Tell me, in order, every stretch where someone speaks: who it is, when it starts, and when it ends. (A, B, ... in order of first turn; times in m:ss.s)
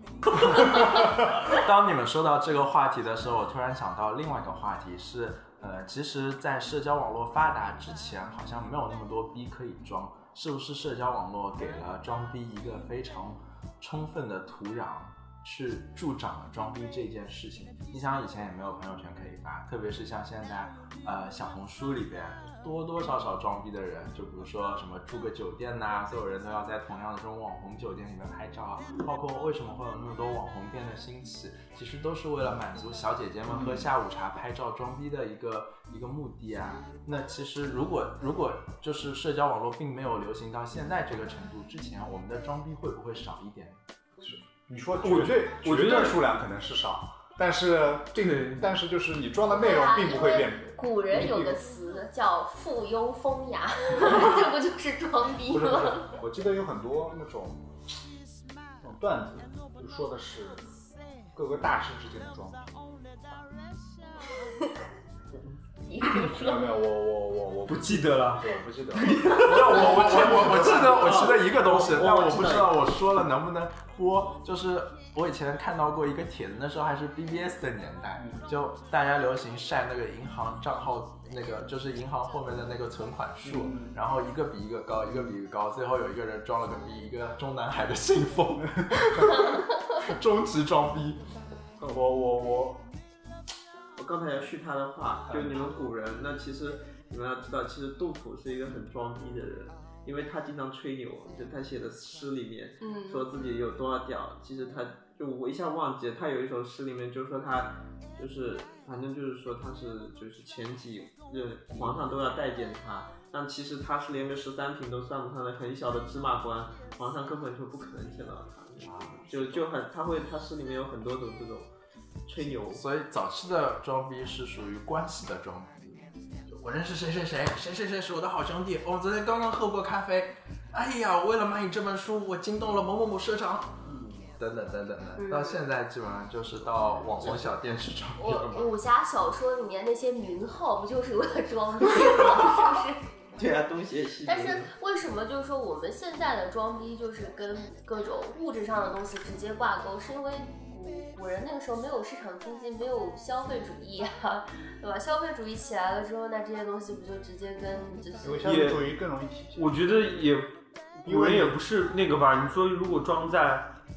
0:00.3-0:43.8 A
0:44.2-0:51.5 B
0:45.0-0:46.2 C
0:48.2-0:48.6 C
0:49.5-0:56.1 D
0:55.5-0:57.6 B
0:58.8-1:00.6 B
1:01.3-1:02.8 B
1:05.9-1:06.7 D
1:06.0-1:11.3 B
1:07.6-1:10.5 C
1:09.4-1:31.2 A
1:10.8-1:12.8 E
1:18.2-1:18.4 B
1:23.4-1:23.9 B
1:28.7-1:29.5 B
1:31.8-1:32.8 B
1:34.0-2:01.7 E
1:35.3-1:35.7 B
1:42.8-1:43.2 D
1:58.8-1:59.6 A
2:02.2-2:02.8 E
2:02.7-2:13.8 A
2:13.8-2:14.3 E
2:14.4-2:18.7 A
2:15.2-2:15.6 D
2:17.2-2:17.5 E
2:18.2-2:23.0 D
2:23.4-2:24.7 E
2:24.2-2:38.7 D
2:38.2-2:40.3 B
2:38.4-2:38.9 C
2:39.6-2:43.7 C
2:41.0-2:41.6 B